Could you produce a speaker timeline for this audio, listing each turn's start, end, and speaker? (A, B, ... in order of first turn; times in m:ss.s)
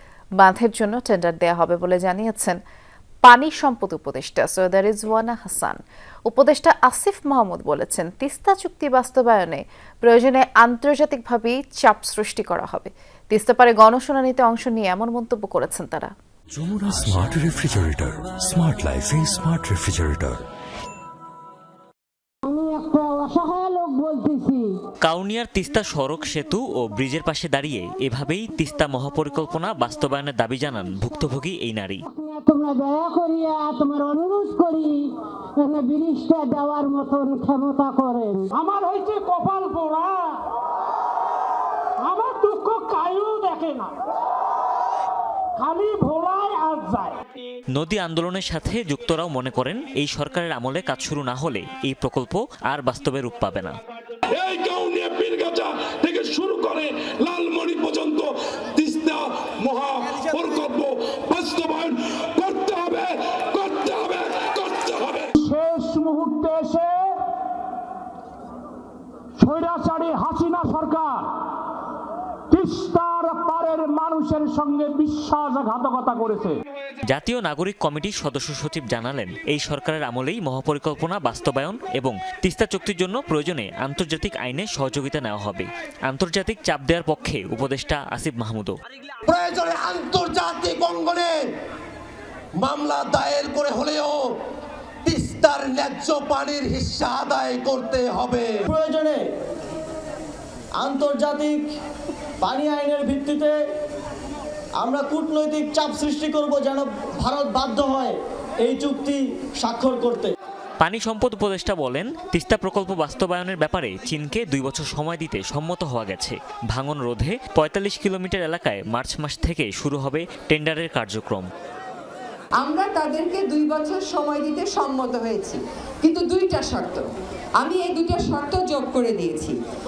0:00.4-0:02.6 A
0:03.3-0:16.1 A
0:16.5-0:20.4 B
0:22.4-0:24.8 C
0:25.0-0:32.0 D
0:32.1-0:38.5 C
0:38.5-0:40.4 E
0:42.0-0:43.9 E
0:45.6-0:47.2 E
0:47.7-0:53.8 D
0:54.4-1:05.2 F
1:05.4-1:07.2 E
1:09.4-1:11.4 E
1:12.5-1:16.6 E
1:17.1-1:28.8 D
1:29.3-1:31.4 G
1:32.6-1:34.2 G
1:35.0-1:38.5 G
1:38.7-1:39.2 H
1:40.8-1:41.6 H
1:42.4-1:43.6 H
1:44.8-1:50.3 H
1:50.8-2:01.5 D
2:02.6-2:07.0 I
2:07.6-2:09.6 I